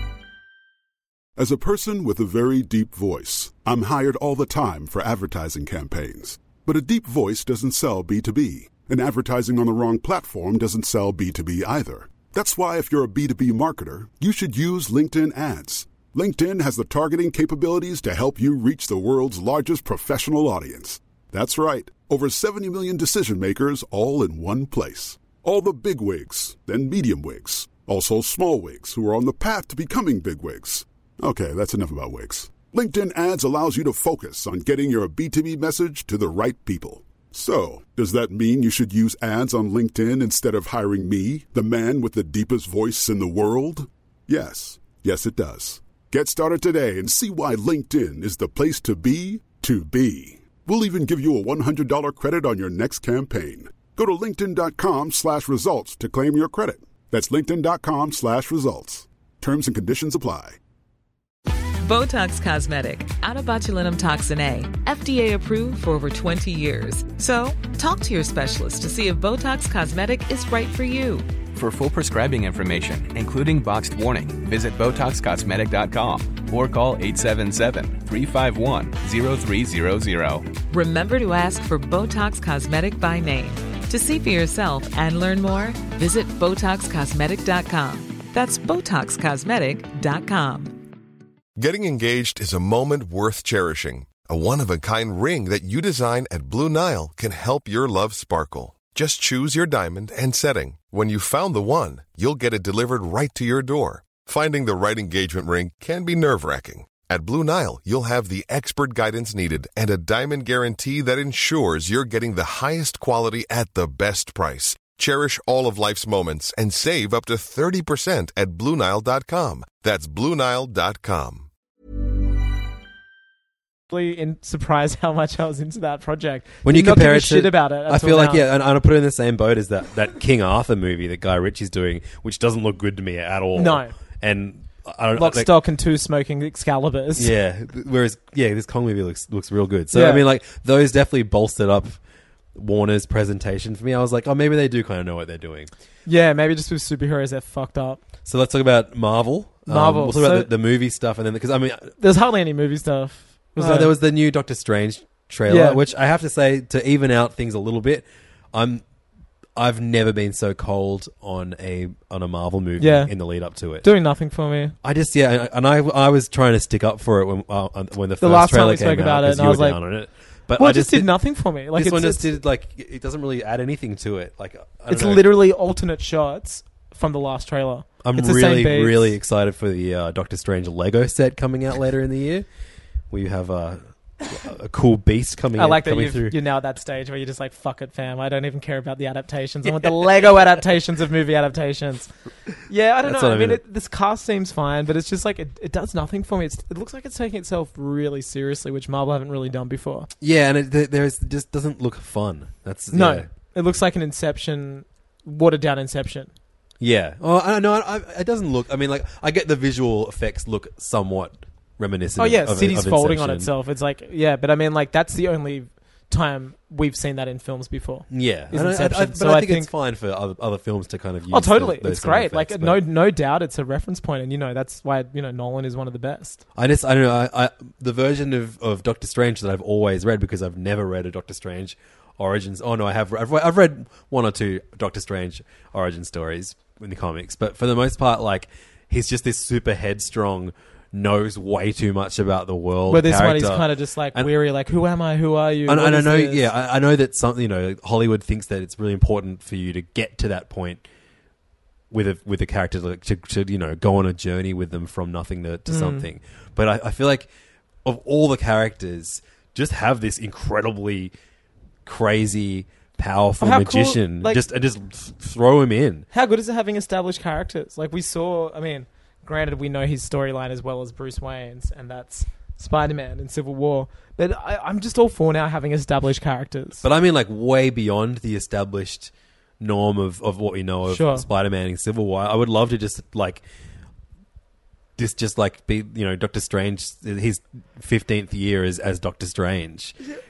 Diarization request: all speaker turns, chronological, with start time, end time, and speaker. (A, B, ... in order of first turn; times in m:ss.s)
0:01.4-1:00.6 A
1:01.8-1:11.3 B
1:11.5-1:20.5 C
1:20.6-1:30.7 B
1:31.6-2:01.5 D
2:03.9-2:08.4 E
2:06.6-2:15.5 F
2:13.5-2:13.9 E
2:15.1-2:17.3 E
2:17.2-2:22.0 F
2:19.9-2:20.2 E
2:22.5-2:25.7 F
2:26.0-2:28.0 E
2:28.2-2:31.9 F
2:29.7-2:30.5 E
2:32.0-2:33.9 E
2:33.6-2:38.8 F
2:35.5-2:35.8 E
2:39.6-2:43.9 F
2:42.8-2:43.1 E
2:43.8-2:44.8 E
2:44.8-2:51.1 F
2:48.2-2:49.8 E
2:50.6-2:52.3 E
2:51.7-2:55.2 F
2:54.9-2:59.2 E
2:58.0-3:02.5 F
3:03.1-3:06.4 F
3:05.5-3:12.1 E
3:09.6-3:10.2 F
3:12.7-3:20.1 E
3:13.0-3:13.6 F
3:20.2-3:23.3 F
3:22.9-3:26.3 E
3:26.8-3:33.5 F
3:32.2-3:39.7 E
3:38.1-3:42.8 F
3:41.3-3:46.4 E
3:46.5-4:04.3 F
4:02.9-4:06.5 E
4:05.6-4:10.8 F
4:11.9-4:17.3 F
4:15.7-4:16.1 E
4:17.8-4:21.1 F
4:21.8-4:26.0 F
4:23.4-4:24.4 E
4:26.1-4:36.8 E
4:36.8-4:43.4 F
4:40.8-4:41.2 E
4:45.0-4:50.0 F